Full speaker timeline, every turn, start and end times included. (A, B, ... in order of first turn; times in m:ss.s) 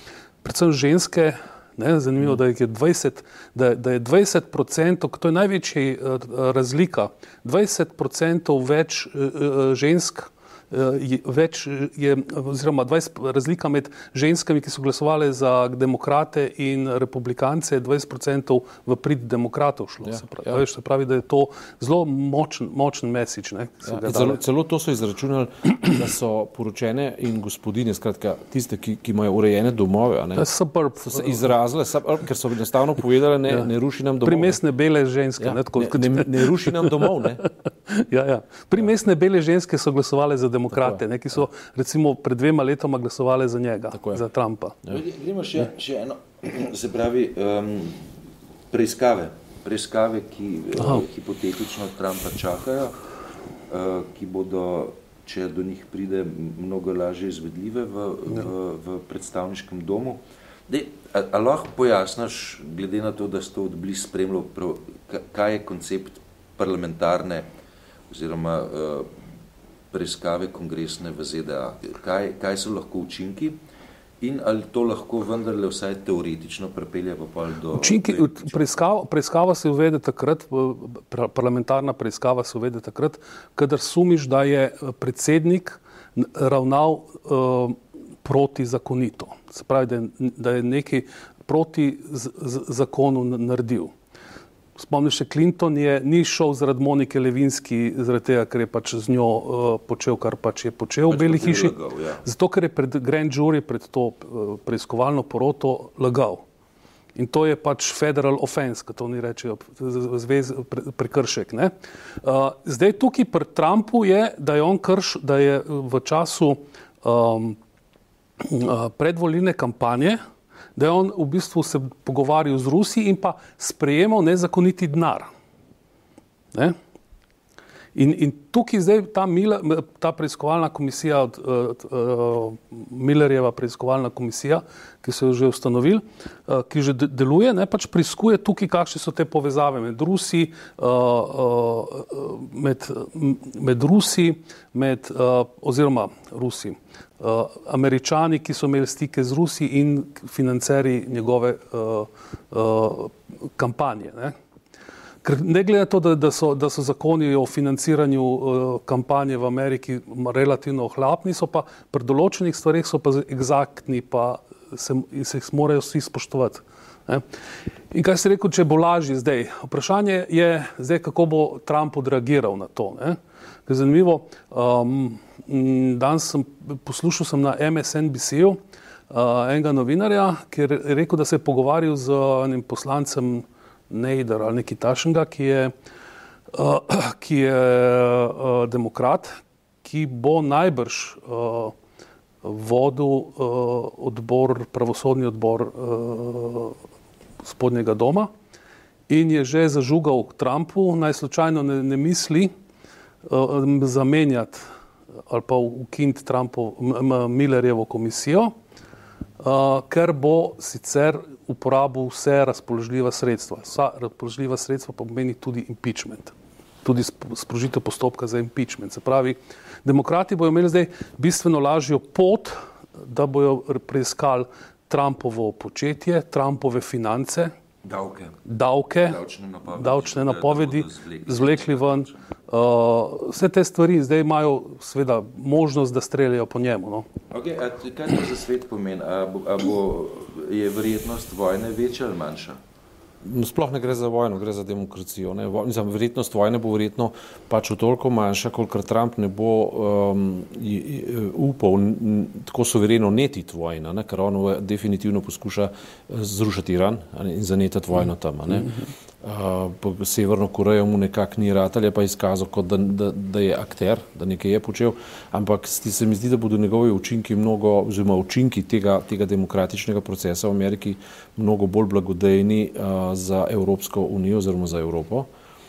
0:00.4-0:24.4 A
0:20.0-0:20.6 B
0:23.8-0:30.5 B
0:30.4-0:31.5 A
0:31.0-0:34.6 B
0:34.2-0:44.8 A
0:35.4-0:37.4 B
0:40.7-0:41.0 B
0:43.9-0:44.2 B
0:44.9-0:48.0 C
0:48.7-0:53.0 C
0:50.7-0:51.0 A
0:53.7-1:07.5 C
1:08.1-1:09.1 C
1:09.9-1:13.6 C
1:14.2-1:18.7 C
1:17.7-1:33.9 A
1:34.8-1:46.4 A
1:41.1-1:42.2 C
1:47.2-1:51.7 A
1:52.2-1:57.6 A
1:58.4-2:00.2 A
2:00.8-2:05.3 A
2:07.9-2:34.3 A
2:35.2-2:47.2 A
2:47.9-2:58.6 A
2:59.1-3:05.7 A
3:06.5-3:09.3 A
3:09.8-3:11.7 A
3:12.4-3:16.8 A
3:17.4-3:18.3 A
3:19.1-3:22.5 A
3:23.2-3:24.6 A
3:25.3-3:28.5 A
3:29.4-3:47.5 A
3:47.8-3:48.4 C
3:48.4-3:49.2 A
3:49.0-3:52.2 C
3:49.7-3:57.0 A
3:57.3-4:02.6 C
4:03.2-4:18.7 B
4:19.2-4:35.3 B